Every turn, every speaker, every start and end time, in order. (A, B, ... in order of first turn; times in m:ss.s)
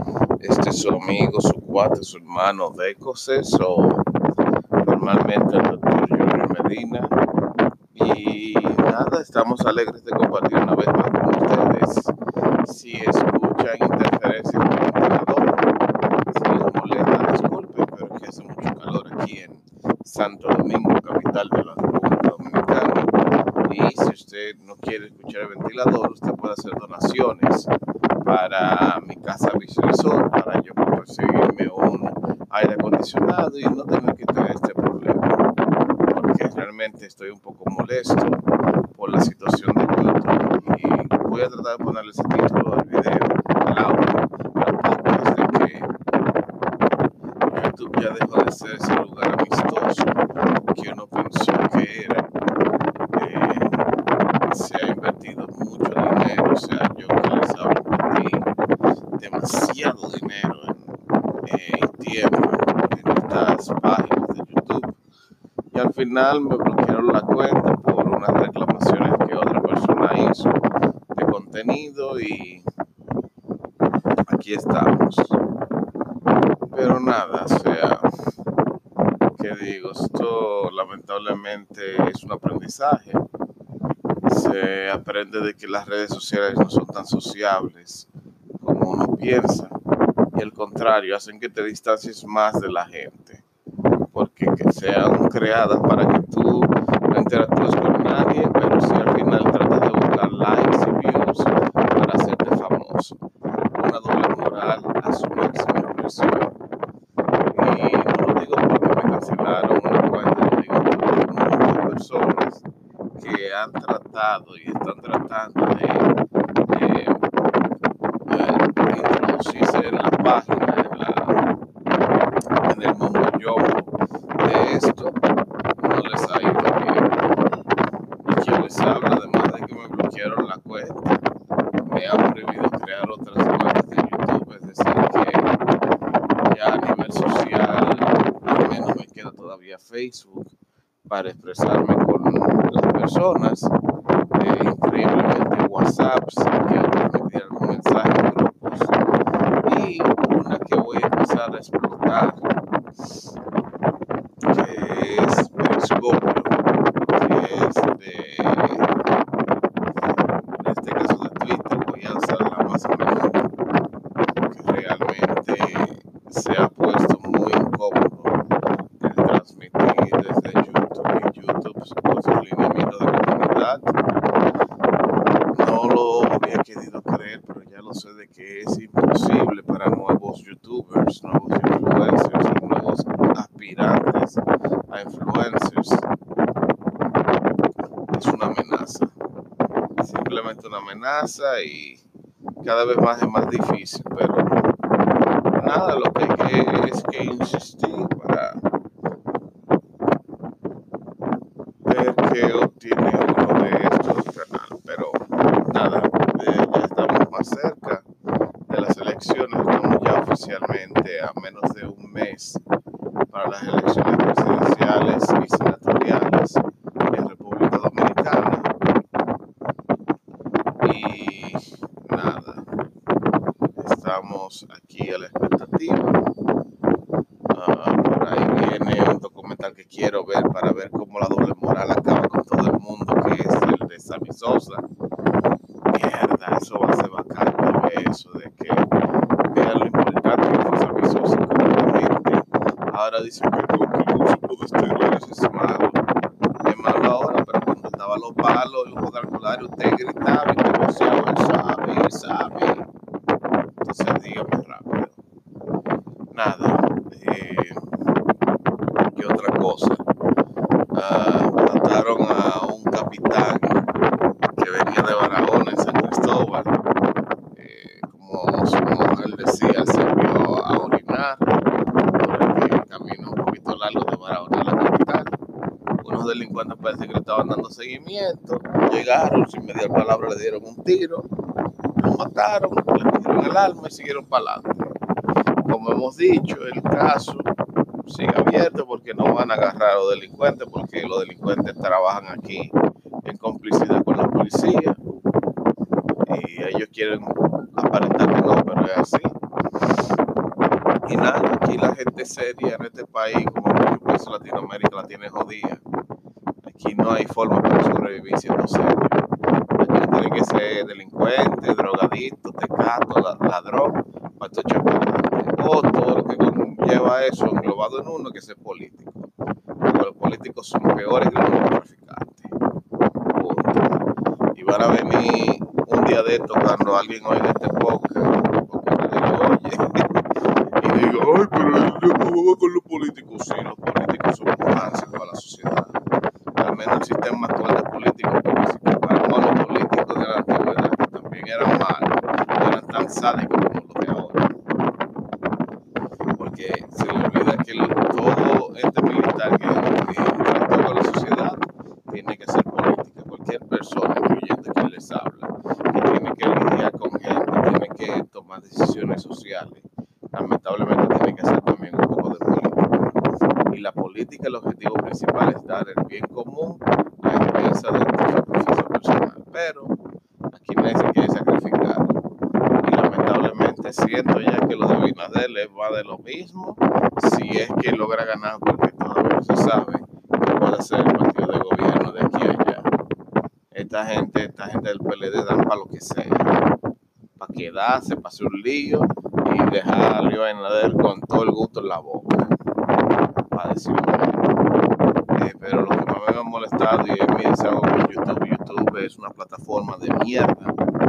0:00.4-0:04.0 A
0:04.8-0:07.2 A
0:07.9-0:12.1 A
0:12.6-0:15.6 A
0:16.3-0:23.1 A
0:23.6-0:27.7 A
0:28.2-0:35.5 A
0:36.1-0:38.4 A
0:38.9-0:45.9 A
0:47.4-0:52.2 A
0:53.1-0:53.8 A
0:54.5-0:58.5 A
0:59.2-1:00.9 A
1:01.4-1:05.0 A
1:05.7-1:10.6 A
1:11.1-1:12.7 A
1:14.3-1:15.4 A
1:16.7-1:18.1 A
1:19.3-1:23.2 A
1:24.2-1:29.8 A
1:30.3-1:33.4 A
1:34.1-1:43.2 A
1:43.7-1:46.5 A
1:47.5-1:52.6 A
1:53.2-1:56.1 A
1:56.7-1:57.2 A
1:58.3-2:01.4 A
2:02.6-2:05.2 A
2:05.8-2:07.1 A
2:08.2-2:11.2 A
2:11.8-2:15.6 A
2:16.4-2:20.5 A
2:21.1-2:23.7 A
2:24.3-2:28.9 A
2:29.6-2:32.5 A
2:34.4-2:36.6 A
2:37.1-2:38.9 A
2:40.6-2:43.5 A
2:44.5-2:48.4 A
2:49.0-2:53.9 A
2:55.5-3:06.0 A
3:08.1-3:09.1 A
3:10.0-3:12.0 A
3:12.6-3:14.6 A
3:15.6-3:18.6 A
3:21.8-3:28.0 A
3:28.7-3:32.6 A
3:33.3-3:38.7 A
3:40.8-3:42.7 A
3:43.8-3:46.2 A
3:47.5-3:54.8 A
3:55.9-3:58.8 A
3:59.5-4:06.0 A
4:06.6-4:12.9 A
4:13.8-4:15.2 A
4:16.3-4:17.9 A
4:19.1-4:20.0 A
4:20.9-4:23.9 A
4:24.6-4:26.8 A
4:27.5-4:31.5 A
4:32.1-4:35.4 A
4:36.0-4:41.3 A
4:42.0-4:44.9 A
4:45.6-4:47.5 A
4:48.1-4:52.7 A
4:53.2-4:55.0 A
4:56.3-4:59.4 A
5:01.1-5:05.8 A
5:06.6-5:09.2 A
5:09.8-5:19.3 A
5:19.8-5:22.5 A
5:23.3-5:23.9 A
5:24.6-5:30.2 A
5:30.8-5:35.9 A
5:36.6-5:44.5 A
5:46.4-6:03.1 A
6:03.7-6:09.9 A
6:10.5-6:12.2 A
6:12.8-6:22.9 A
6:23.7-6:26.6 A
6:27.4-6:32.5 A
6:33.5-6:34.4 A
6:35.3-6:40.7 A